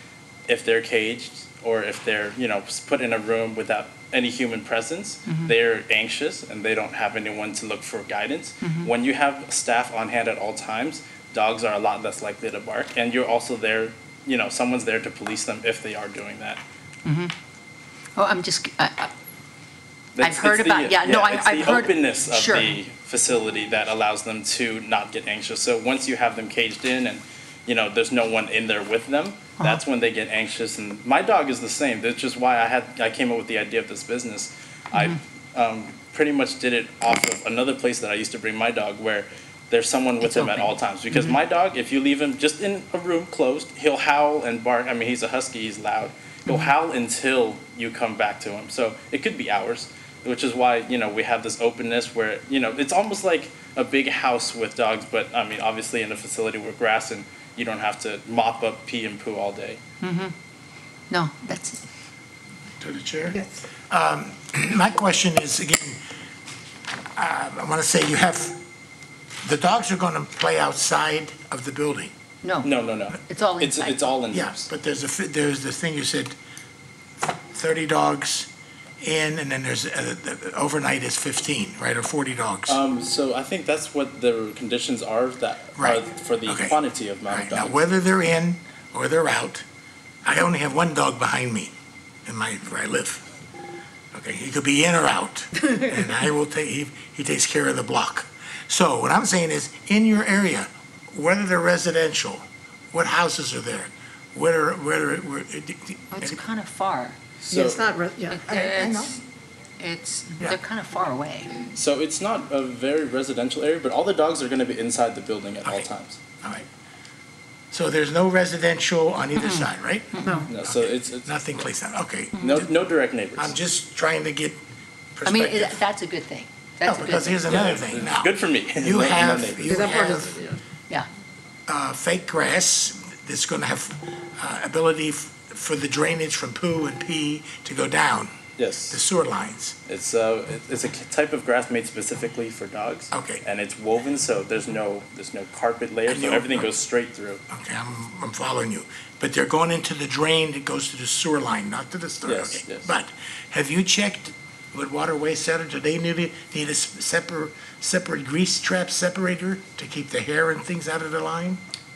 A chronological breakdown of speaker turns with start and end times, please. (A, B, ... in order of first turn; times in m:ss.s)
0:00.5-0:16.6 A
0:05.2-0:05.5 B
0:08.6-0:08.9 B
0:17.0-0:17.3 B
0:18.2-0:19.1 B
0:20.2-0:59.8 A
0:20.2-0:22.8 B
0:40.2-0:41.3 B
1:00.0-1:00.3 B
1:01.1-1:01.8 B
1:02.8-1:06.0 C
1:07.2-1:08.6 C
1:09.4-1:12.1 C
1:12.4-1:12.7 B
1:12.6-1:14.7 A
1:13.2-1:14.1 B
1:14.3-1:16.4 C
1:17.5-1:18.5 C
1:19.0-1:22.8 C
1:22.7-1:27.8 A
1:25.8-1:29.6 C
1:30.2-1:31.7 C
1:32.2-1:33.2 C
1:34.1-1:46.4 C
1:46.1-1:47.2 B
1:47.4-1:47.8 A
1:47.5-1:49.1 D
1:48.3-1:49.2 B
1:49.8-1:51.5 B
1:51.7-1:56.2 A
1:57.7-2:02.7 C
1:59.4-2:00.4 B
2:00.4-2:01.4 A
2:02.4-2:03.6 A
2:03.4-2:04.6 C
2:05.1-2:05.8 C
2:05.2-2:07.6 B
2:06.8-2:10.4 C
2:07.4-2:09.9 A
2:09.6-2:10.6 D
2:11.7-2:18.3 C
2:18.6-2:19.0 A
2:18.9-2:19.8 C
2:19.9-2:27.4 A
2:23.1-2:23.4 C
2:26.1-2:26.7 C
2:27.5-2:41.6 C
2:32.2-2:32.9 A